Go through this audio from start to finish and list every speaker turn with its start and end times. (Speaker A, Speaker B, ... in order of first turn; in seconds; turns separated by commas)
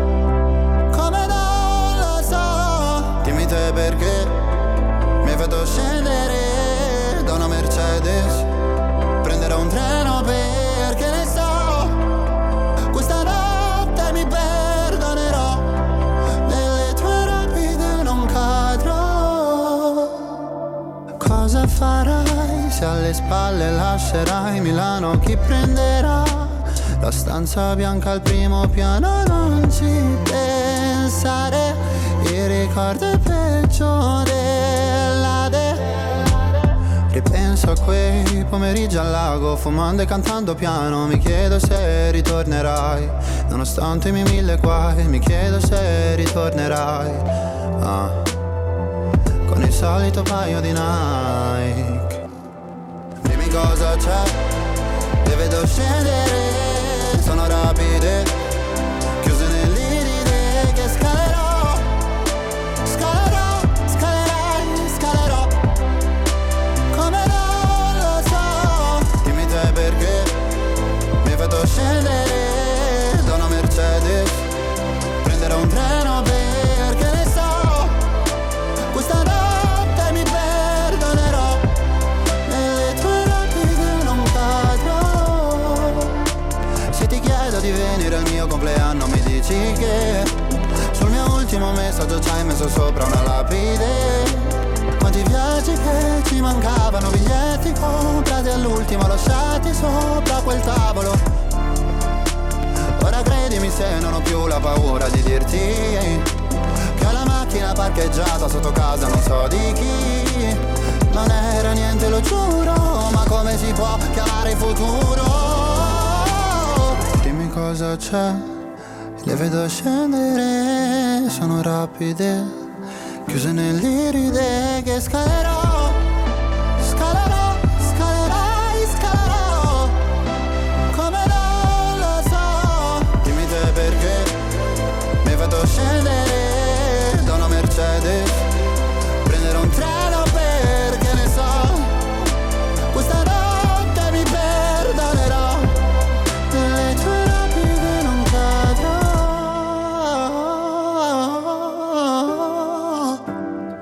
Speaker A: 0.9-4.3, Speaker A: 5.2-8.5, Speaker A: 9.2-12.0, Speaker A: 12.9-15.8, Speaker A: 16.4-20.2, Speaker A: 21.2-36.2, Speaker A: 37.1-47.2, Speaker A: 47.8-48.3, Speaker A: 49.5-52.2, Speaker A: 53.2-54.4, Speaker A: 55.2-58.3, Speaker A: 59.2-61.9, Speaker A: 62.8-65.5, Speaker A: 66.9-70.3, Speaker A: 71.2-74.5, Speaker A: 75.2-78.0, Speaker A: 78.9-81.7, Speaker A: 82.5-86.2, Speaker A: 86.9-90.4, Speaker A: 90.9-101.2, Speaker A: 103.0-106.3, Speaker A: 107.0-118.5, Speaker A: 119.2-122.6, Speaker A: 123.3-126.0, Speaker A: 126.8-130.0, Speaker A: 130.9-134.4, Speaker A: 135.2-138.5, Speaker A: 139.2-142.0, Speaker A: 142.9-145.8, Speaker A: 146.5-153.2